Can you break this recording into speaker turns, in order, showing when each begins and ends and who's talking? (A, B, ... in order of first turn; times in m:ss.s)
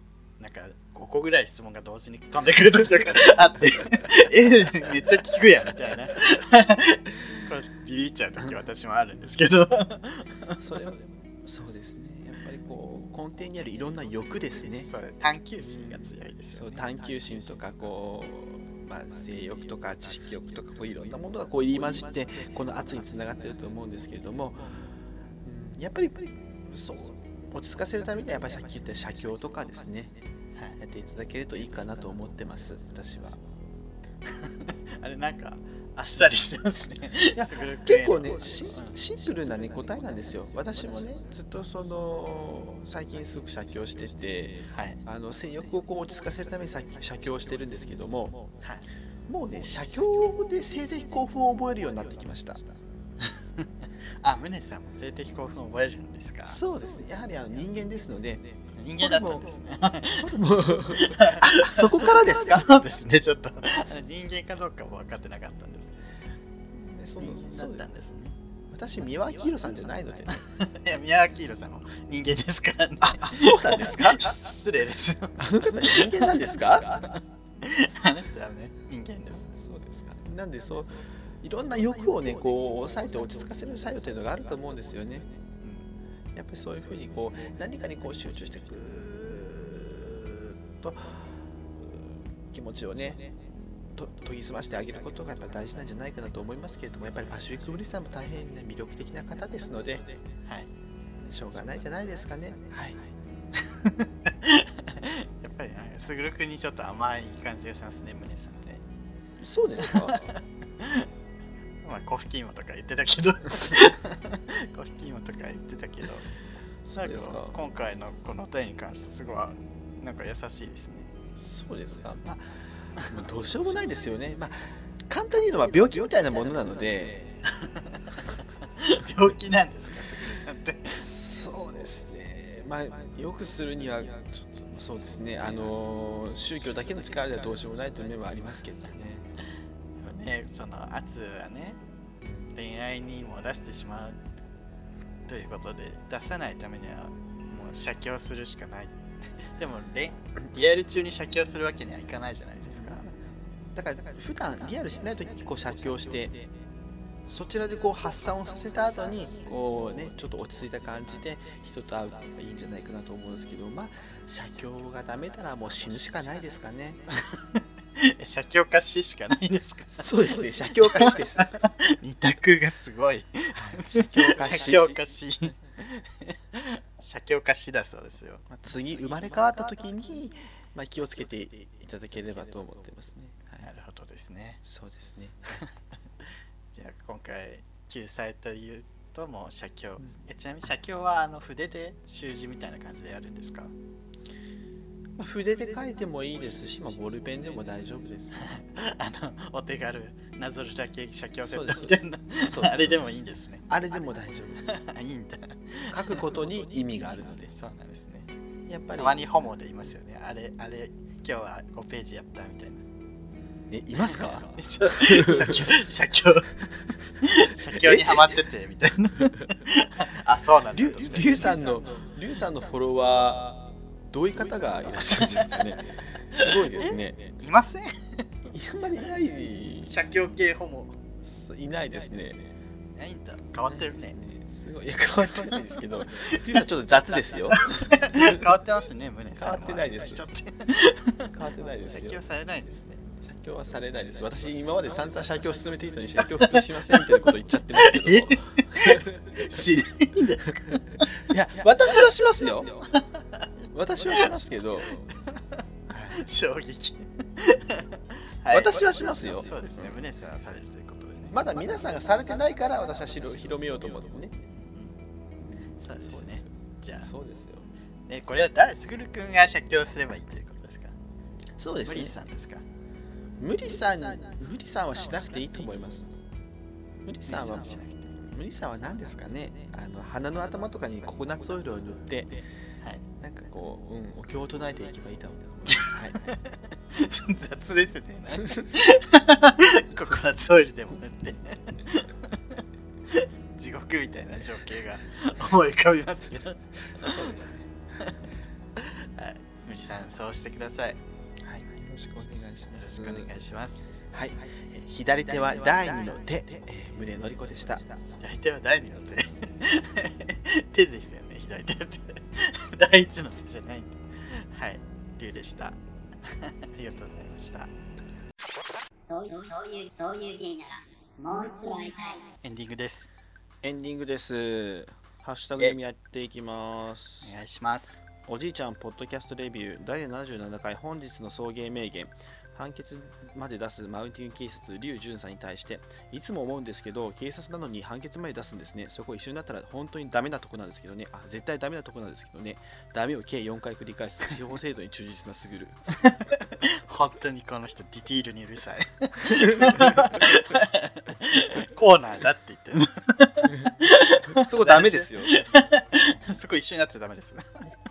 0:00.4-0:10.6 A
0:03.6-0:04.1 B
0:10.6-0:14.9 B
0:14.8-0:17.0 A
0:15.6-0:24.9 B
0:25.4-0:30.2 B
0:30.8-0:33.4 B
0:34.3-0:39.0 A
0:37.4-0:48.4 B
0:44.7-0:45.0 A
0:49.3-0:52.8 B
0:53.3-0:53.7 A
0:54.2-0:56.6 A
0:56.4-0:59.6 B
0:58.8-1:00.3 A
1:00.2-1:02.8 B
1:00.9-1:06.0 A
1:06.7-1:07.9 B
1:07.2-1:08.4 A
1:08.7-1:10.4 B
1:10.3-1:19.6 A
1:13.0-1:14.4 B
1:15.4-1:17.1 B
1:19.6-1:25.3 B
1:25.6-1:25.9 A
1:26.3-1:31.3 B
1:31.8-1:33.4 B
1:33.9-1:40.1 B
1:41.2-1:43.1 B
1:43.6-1:48.8 A
1:49.4-1:50.3 B
1:49.8-1:51.1 A
1:51.8-1:56.3 A
1:56.8-1:57.6 B
1:57.0-2:01.1 A
2:01.4-2:07.3 B
2:07.5-2:11.0 A
2:11.0-2:19.3 B
2:20.0-2:21.8 A
2:22.2-2:22.5 B
2:22.5-2:24.2 A
2:25.3-2:33.1 A
2:32.7-2:33.2 B
2:33.8-2:36.5 B
2:37.3-2:47.0 B
2:47.1-2:50.1 A
2:50.0-2:51.5 B
2:50.8-2:58.5 A
2:53.6-2:55.0 B
2:58.5-3:03.7 B
3:03.6-3:04.6 A
3:04.6-3:05.6 B
3:06.7-3:13.7 A
3:15.2-3:18.5 B
3:18.4-3:23.7 A
3:21.5-3:24.7 B
3:24.6-3:26.2 A
3:25.9-3:27.5 B
3:27.2-3:28.3 A
3:28.7-3:29.5 B
3:29.0-3:32.8 A
3:33.7-3:35.8 B
3:34.0-3:36.7 A
3:37.2-3:41.8 A
3:37.7-3:38.3 B
3:40.7-3:47.3 B
3:45.1-3:45.8 A
3:46.3-3:48.3 A
3:48.5-3:50.0 B
3:49.9-3:51.0 A
3:51.2-3:52.5 B
3:53.0-3:54.2 A
3:53.6-3:58.5 B
3:55.3-3:55.6 A
3:56.2-3:56.4 A
3:57.4-4:03.1 A
3:59.4-4:00.3 B
4:01.3-4:02.2 B
4:03.2-4:09.2 B
4:06.4-4:07.0 A
4:07.7-4:11.1 A
4:11.2-4:12.8 B
4:12.7-4:14.4 A
4:13.7-4:15.0 B
4:15.1-4:15.6 A
4:15.9-4:16.2 B
4:16.1-4:21.5 A
4:18.5-4:20.0 B
4:21.3-4:24.4 B
4:24.5-4:25.0 A
4:25.4-4:26.5 B
4:25.8-4:27.1 A
4:27.0-4:27.7 B
4:28.1-4:31.0 A
4:31.6-4:32.2 B
4:31.8-4:32.6 A
4:33.4-4:36.1 B
4:37.0-4:42.4 B
4:37.3-4:38.2 A
4:43.2-4:46.2 B
4:45.7-4:57.5 A
4:48.4-4:48.7 B
4:57.0-4:57.7 B
4:58.8-5:01.0 A
5:01.4-5:03.3 B
5:02.7-5:03.8 A
5:04.1-5:08.0 B
5:08.2-5:17.7 A
5:19.1-5:22.3 C
5:22.4-5:23.1 A
5:23.6-5:27.3 B
5:27.2-5:28.0 A
5:28.3-5:45.8 B
5:46.0-5:57.6 A
5:49.4-5:50.2 B
5:54.3-5:55.3 B